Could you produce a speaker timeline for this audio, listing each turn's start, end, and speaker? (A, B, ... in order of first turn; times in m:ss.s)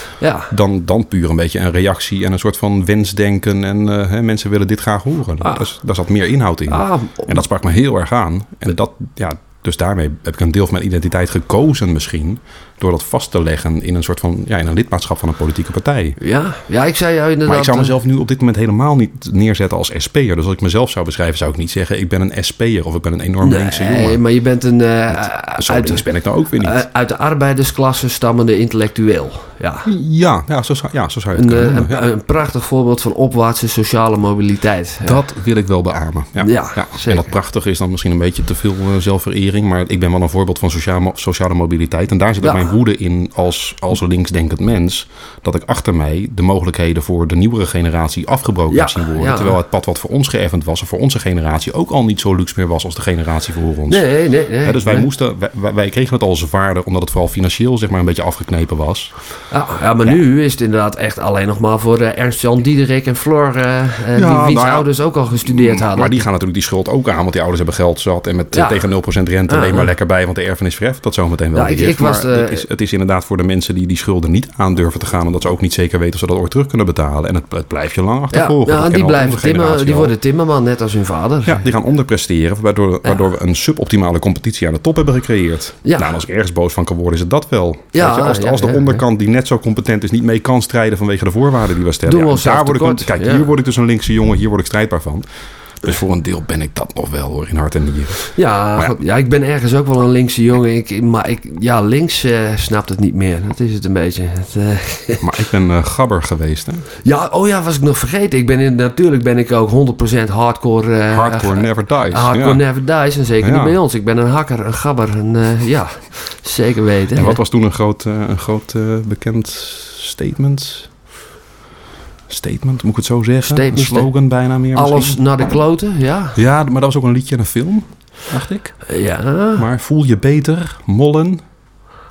0:00.2-0:00.5 A
0:00.5-0:16.2 B
0:06.7-0:07.4 A
0:16.2-0:17.9 A
0:17.4-0:24.2 B
0:23.4-0:26.0 A
0:25.1-0:26.8 B
0:26.6-0:29.9 A
0:29.8-0:32.0 B
0:31.3-0:35.2 A
0:35.0-0:59.1 B
0:36.4-0:37.3 A
0:42.4-0:42.7 A
0:48.7-0:49.6 A
0:53.9-0:55.1 A
0:59.5-1:06.2 A
1:04.1-1:04.9 B
1:05.4-1:20.1 B
1:08.5-1:08.8 A
1:09.5-1:09.9 A
1:11.5-1:12.6 A
1:18.3-1:21.6 A
1:21.4-1:35.2 B
1:25.8-1:26.2 A
1:27.9-1:29.0 A
1:32.0-1:33.4 A
1:35.8-1:39.0 B
1:38.3-1:45.3 A
1:45.2-1:46.8 B
1:47.0-1:57.4 A
1:51.1-1:52.6 B
1:53.4-1:53.8 B
1:57.1-2:00.9 B
2:02.3-2:05.2 B
2:03.4-2:04.1 A
2:04.7-2:06.4 A
2:06.3-2:08.9 B
2:08.9-2:09.7 A
2:09.5-2:11.4 B